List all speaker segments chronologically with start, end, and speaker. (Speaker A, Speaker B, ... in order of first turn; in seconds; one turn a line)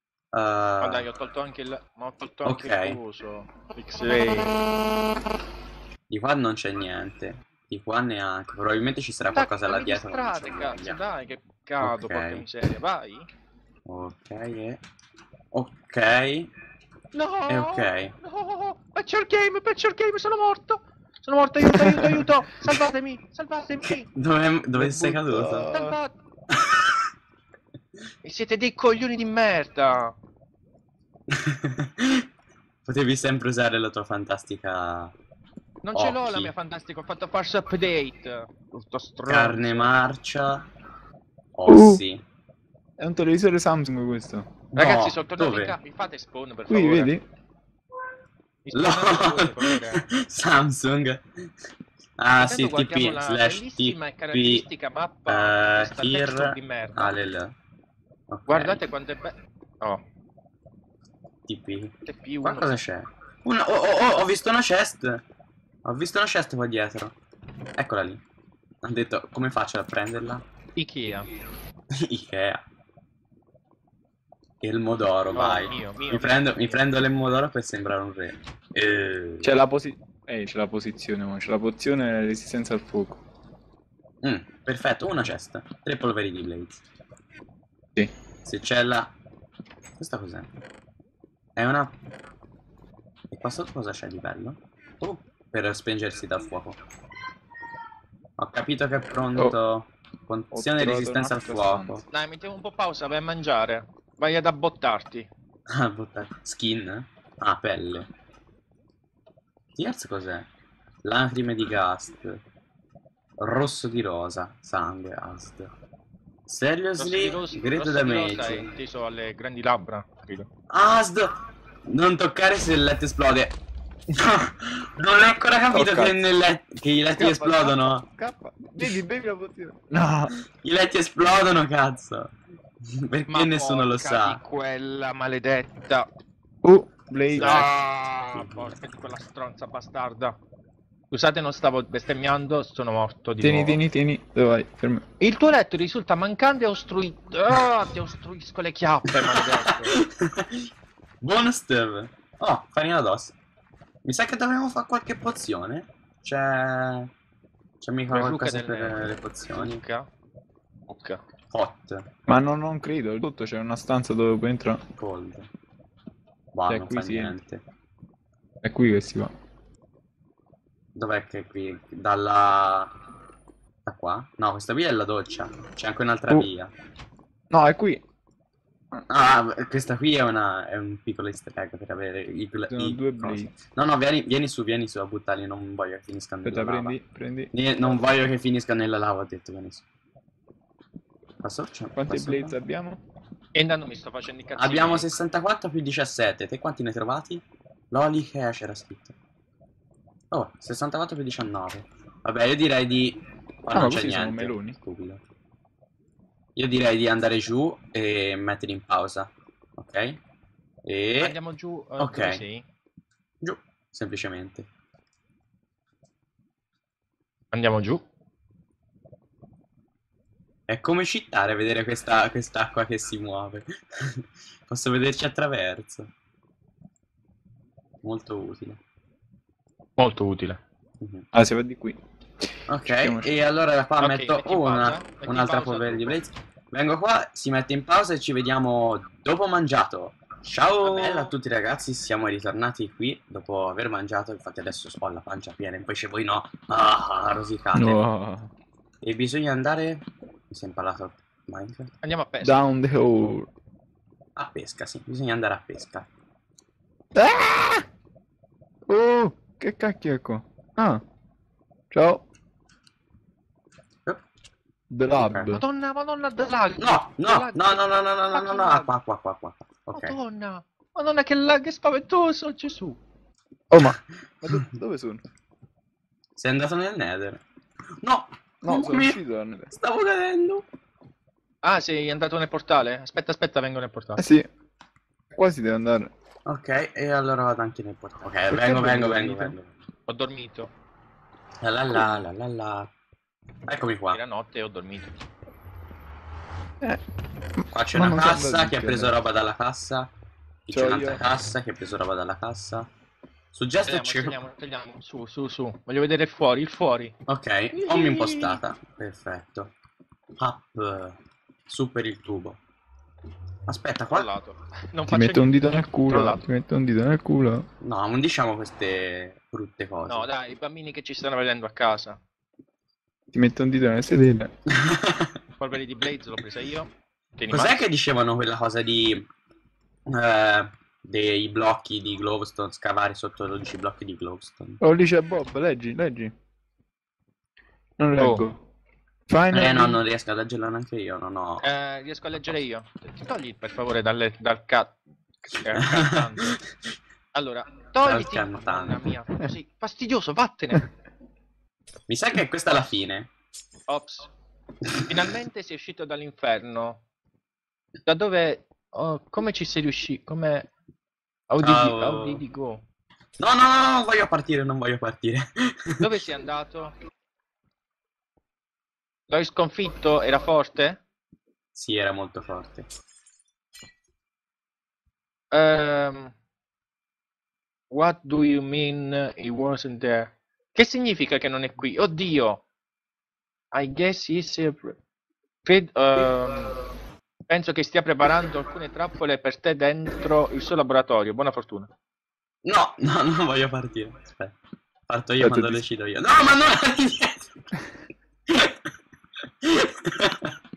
Speaker A: 0.3-1.1
Speaker B: 0.8-4.5
Speaker A: 2.4-3.0
Speaker A: 6.1-11.0
Speaker B: 9.3-13.3
Speaker A: 11.8-12.5
Speaker A: 13.9-14.8
Speaker A: 15.5-16.5
Speaker B: 17.1-24.1
Speaker A: 17.5-18.1
Speaker A: 23.8-25.7
Speaker C: 24.7-26.0
Speaker B: 25.7-26.1
Speaker A: 26.5-27.1
Speaker B: 28.2-30.1
Speaker A: 31.3-32.3
Speaker A: 32.9-35.1
Speaker B: 35.8-39.9
Speaker A: 35.9-36.5
Speaker A: 39.3-40.7
Speaker A: 41.6-42.2
Speaker C: 41.7-42.0
Speaker C: 43.0-44.5
Speaker A: 44.7-45.8
Speaker B: 44.8-47.1
Speaker C: 46.7-47.2
Speaker B: 48.6-50.1
Speaker A: 48.7-51.5
Speaker A: 52.2-54.7
Speaker B: 52.4-57.2
Speaker A: 55.3-57.5
Speaker A: 58.3-58.8
Speaker B: 58.5-60.0
Speaker A: 61.5-65.2
Speaker B: 62.1-62.7
Speaker A: 65.8-67.2
Speaker A: 67.8-68.2
Speaker A: 68.8-70.4
Speaker B: 70.8-71.3
Speaker A: 71.9-72.6
Speaker A: 74.6-79.5
Speaker B: 75.3-76.8
Speaker C: 79.4-83.2
Speaker A: 84.2-86.8
Speaker A: 88.5-89.1
Speaker A: 90.0-90.5
Speaker A: 91.6-92.0
Speaker A: 93.3-96.8
Speaker A: 98.4-102.0
Speaker C: 100.5-102.0
Speaker B: 102.1-105.3
Speaker A: 105.7-108.1
Speaker A: 109.8-110.5
Speaker A: 111.0-112.4
Speaker A: 113.4-115.7
Speaker A: 116.5-118.7
Speaker B: 117.0-120.5
Speaker A: 120.7-123.6
Speaker A: 124.1-128.1
Speaker C: 125.7-126.2
Speaker C: 127.2-130.4
Speaker A: 130.6-132.3
Speaker A: 132.8-134.4
Speaker B: 133.3-136.1
Speaker C: 136.6-137.7
Speaker A: 137.3-137.7
Speaker B: 137.4-140.4
Speaker A: 138.3-138.8
Speaker B: 141.1-143.8
Speaker C: 143.4-145.1
Speaker B: 145.2-150.0
Speaker A: 149.1-150.7
Speaker A: 151.2-153.3
Speaker A: 154.1-157.1
Speaker A: 157.8-159.8
Speaker B: 158.1-160.1
Speaker B: 160.9-161.2
Speaker A: 161.5-162.1
Speaker C: 162.3-164.8
Speaker A: 165.0-165.5
Speaker A: 166.5-167.6
Speaker C: 166.7-167.4
Speaker C: 168.6-169.3
Speaker A: 170.9-172.9
Speaker A: 173.8-176.7
Speaker C: 177.5-178.0
Speaker A: 179.1-187.0
Speaker C: 182.7-183.6
Speaker C: 186.4-187.5
Speaker A: 187.5-189.8
Speaker A: 191.4-192.6
Speaker C: 191.9-193.0
Speaker B: 193.6-195.1
Speaker A: 194.6-199.2
Speaker A: 200.3-205.2
Speaker C: 203.7-204.8
Speaker A: 206.6-210.2
Speaker A: 210.8-211.4
Speaker B: 211.2-212.7
Speaker A: 212.0-212.4
Speaker A: 213.4-214.7
Speaker B: 217.5-218.0
Speaker A: 220.7-226.1
Speaker A: 228.0-228.8
Speaker B: 230.0-230.6
Speaker A: 231.0-231.2
Speaker C: 231.3-232.0
Speaker A: 232.7-248.0
Speaker C: 232.8-233.4
Speaker B: 234.0-236.2
Speaker B: 240.8-241.3
Speaker C: 247.7-248.5
Speaker A: 249.0-251.9
Speaker B: 252.0-252.7
Speaker C: 252.4-253.5
Speaker A: 254.4-256.1
Speaker C: 257.1-257.9
Speaker C: 258.9-261.0
Speaker C: 261.9-262.2
Speaker C: 264.9-265.6
Speaker A: 265.1-265.6
Speaker B: 265.5-268.9
Speaker A: 266.8-270.2
Speaker B: 269.9-273.0
Speaker C: 273.7-275.2
Speaker A: 276.4-277.4
Speaker A: 278.0-279.2
Speaker C: 278.6-279.7
Speaker A: 279.7-280.6
Speaker B: 281.6-284.2
Speaker C: 284.2-284.5
Speaker C: 285.4-286.1
Speaker A: 286.5-289.7
Speaker C: 288.5-289.6
Speaker B: 290.1-290.7
Speaker A: 291.6-292.9
Speaker A: 293.7-294.2
Speaker B: 294.1-295.1
Speaker C: 297.6-299.2
Speaker A: 297.7-300.1
Speaker A: 300.7-302.9
Speaker C: 300.7-301.2
Speaker A: 303.5-304.4
Speaker B: 303.9-307.1
Speaker A: 307.3-309.7
Speaker C: 307.8-308.6
Speaker A: 310.4-312.6
Speaker A: 313.7-314.3
Speaker B: 314.1-315.5
Speaker C: 315.1-317.7
Speaker B: 316.1-316.4
Speaker A: 317.8-320.3
Speaker B: 320.1-322.2
Speaker C: 323.3-324.5
Speaker A: 324.7-325.4
Speaker B: 325.6-327.8
Speaker A: 327.5-329.3
Speaker A: 330.1-334.8
Speaker C: 334.8-336.3
Speaker C: 338.0-338.6
Speaker B: 338.2-338.4
Speaker C: 339.3-340.0
Speaker A: 339.5-341.7
Speaker B: 341.6-345.0
Speaker B: 345.5-346.6
Speaker A: 345.7-346.4
Speaker B: 347.3-350.9
Speaker A: 348.0-349.1
Speaker A: 352.1-353.3
Speaker B: 353.9-354.3
Speaker B: 355.1-357.0
Speaker B: 358.1-360.7
Speaker B: 361.5-362.8
Speaker A: 361.6-362.4
Speaker A: 363.4-366.1
Speaker B: 366.0-366.9
Speaker B: 369.3-371.0
Speaker A: 371.8-372.9
Speaker B: 375.5-376.3
Speaker B: 377.9-382.6
Speaker B: 383.7-385.0
Speaker B: 385.6-386.8
Speaker B: 387.5-391.9
Speaker A: 392.6-394.6
Speaker A: 395.1-397.5
Speaker C: 395.4-395.9
Speaker A: 398.5-398.9
Speaker A: 399.6-400.6